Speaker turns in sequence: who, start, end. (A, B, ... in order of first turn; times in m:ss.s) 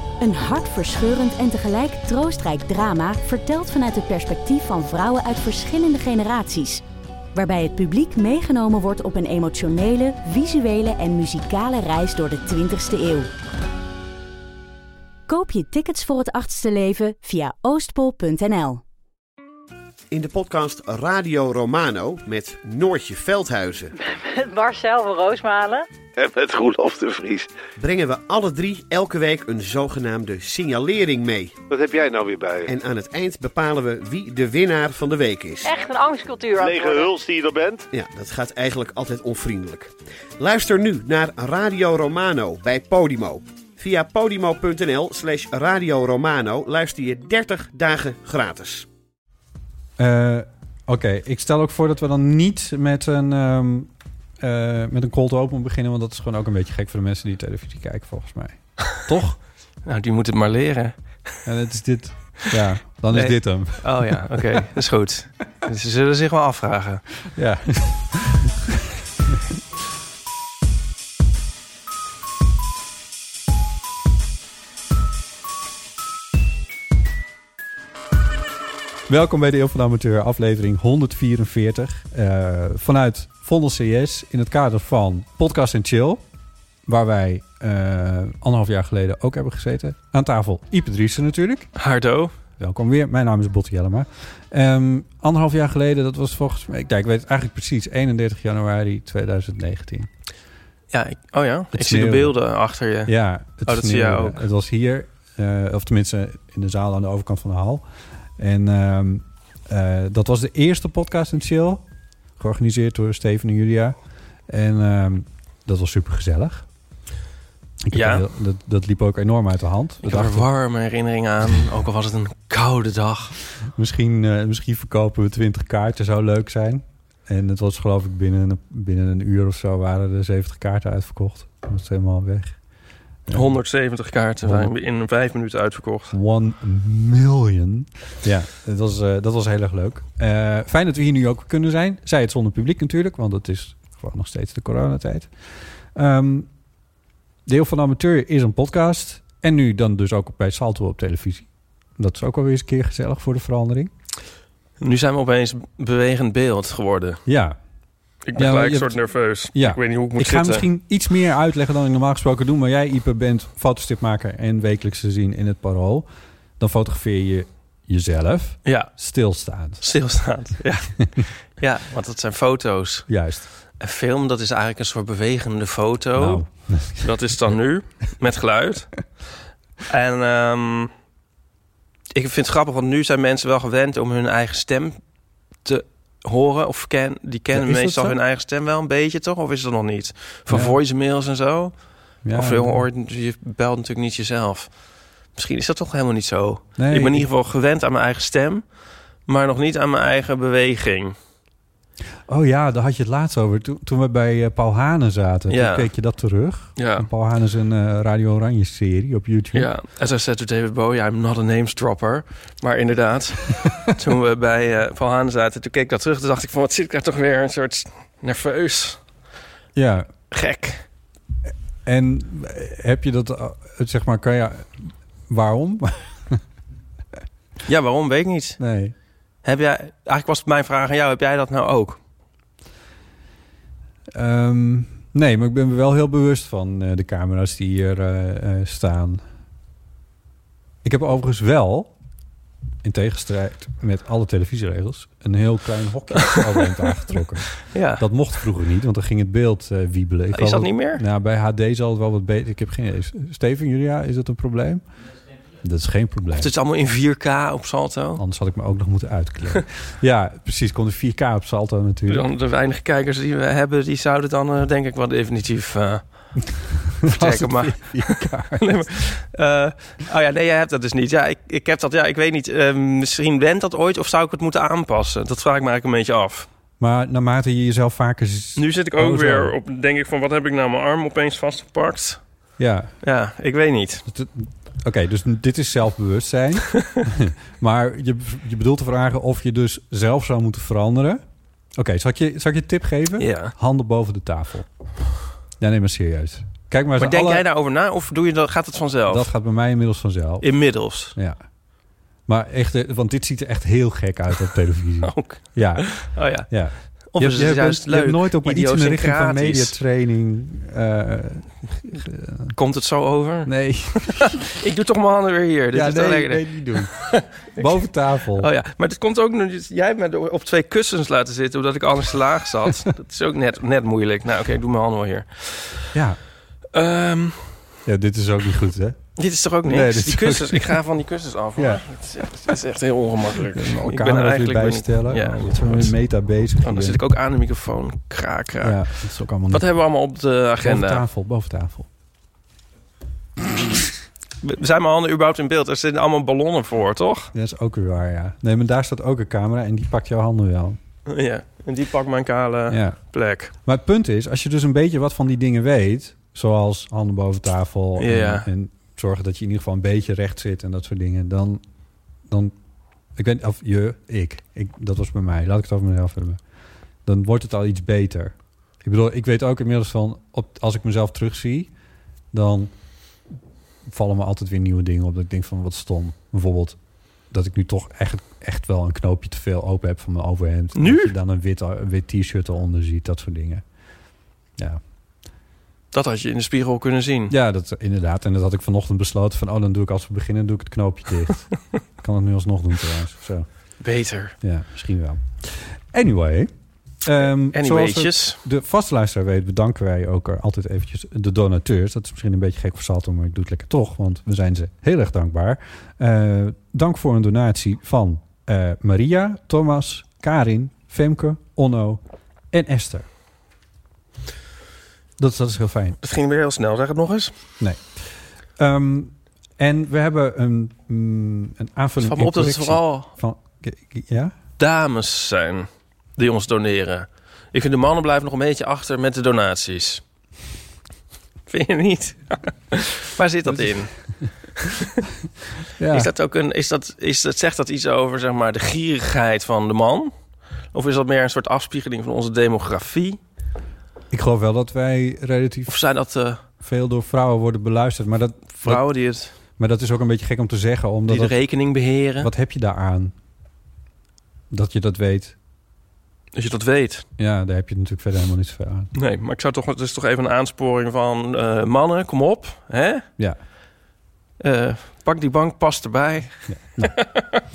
0:00.2-0:06.8 A
0:07.4-0:13.3 A
0:15.3-0:18.8 A
0:20.1-0:23.9 B
0:24.0-0:25.9 C
0:26.2-0:27.5 D
0:27.8-0:31.6 B
0:31.7-0:32.7 D
0:32.7-0:35.7 B
0:35.6-0:37.1 C
0:36.6-0:37.9 D
0:37.9-0:48.9 B
0:50.0-0:59.4 E
0:59.8-1:01.4 F
1:01.4-1:04.7 E
1:03.1-1:07.2 F
1:07.3-1:08.5 E
1:19.1-1:26.2 E
1:26.8-1:31.7 E
1:31.8-1:32.3 F
1:32.6-1:40.1 E
1:40.9-1:44.4 F
1:41.7-1:42.4 E
1:43.0-1:47.8 E
1:48.4-1:51.8 E
1:52.4-1:56.7 E
1:57.8-2:00.5 E
1:57.9-1:58.2 F
2:00.0-2:03.4 F
2:03.7-2:12.6 E
2:13.2-2:13.6 E
2:13.3-2:16.1 F
2:14.4-2:14.7 E
2:16.1-2:26.5 E
2:27.4-2:33.9 E
2:34.8-2:37.2 F
2:37.2-2:37.6 E
2:38.2-2:40.7 F
2:38.3-2:39.0 E
2:39.5-2:46.1 E
2:46.6-2:49.8 E
2:48.6-2:48.9 F
2:49.8-2:59.1 F
2:53.1-2:53.5 E
2:56.2-2:57.1 E
2:59.9-3:00.9 F
3:02.1-3:05.0 F
3:05.6-3:14.8 F
3:07.5-3:08.2 E
3:10.5-3:10.8 E
3:12.2-3:12.8 E
3:15.3-3:18.7 F
3:16.8-3:17.3 E
3:19.2-3:21.2 F
3:22.3-3:29.7 E
3:25.5-3:25.9 F
3:26.8-3:27.1 F
3:29.5-3:39.0 F
3:39.7-3:40.1 E
3:40.3-3:40.8 F
3:41.8-3:46.4 E
3:47.7-3:48.6 F
3:48.6-3:48.9 E
3:49.4-3:52.0 F
3:54.1-3:59.2 E
4:00.8-4:01.9 E
4:02.8-4:14.9 E
4:07.6-4:08.3 F
4:10.3-4:11.0 F
4:15.6-4:16.5 E
4:16.4-4:18.2 F
4:18.2-4:22.2 E
4:22.1-4:36.5 F
4:27.0-4:28.9 E
4:36.8-4:39.6 E
4:38.6-4:42.2 F
4:42.6-4:42.9 E
4:43.0-4:44.0 F
4:44.1-4:51.2 E
4:51.8-4:54.7 E
4:53.2-4:53.5 F
4:55.6-4:57.5 E
4:57.0-4:59.3 F
4:59.1-5:01.4 E
5:00.4-5:01.2 F
5:02.2-5:12.6 E
5:05.0-5:09.8 F
5:12.5-5:17.7 F
5:13.4-5:14.4 E
5:15.7-5:18.5 E
5:18.4-5:25.9 F
5:25.9-5:26.2 E
5:26.7-5:27.6 F
5:27.9-5:30.8 E
5:29.2-5:41.0 F
5:31.6-5:31.9 E
5:33.4-5:37.0 E
5:38.6-5:39.7 E
5:40.6-5:41.9 E
5:44.4-5:47.3 F
5:47.3-5:50.8 E
5:51.1-5:53.5 F
5:52.7-5:53.0 E
5:53.6-6:01.6 E
5:58.0-5:58.5 F
6:02.2-6:02.5 E
6:03.2-6:06.4 E
6:07.0-6:11.7 E
6:12.3-6:12.7 E
6:13.8-6:23.6 E
6:20.8-6:21.1 F
6:24.6-6:24.8 E
6:25.9-6:27.4 F
6:27.3-6:33.5 E
6:33.8-6:34.3 F
6:34.4-6:53.1 E
6:37.5-6:38.4 F
6:55.2-6:56.0 E
6:56.0-6:57.3 F
6:57.6-7:04.4 E
7:02.0-7:03.1 F
7:04.6-7:10.0 F
7:11.5-7:14.9 F
7:13.5-7:14.3 E
7:15.8-7:16.1 E
7:15.9-7:23.2 F
7:24.1-7:25.7 E
7:25.7-7:26.4 F
7:26.6-7:31.4 E
7:28.6-7:29.3 F
7:31.1-7:32.3 F
7:32.2-7:33.2 E
7:34.5-7:35.4 E
7:36.4-7:37.0 F
7:37.2-7:38.9 E
7:38.9-7:43.0 F
7:44.4-7:47.4 F
7:46.5-7:47.0 E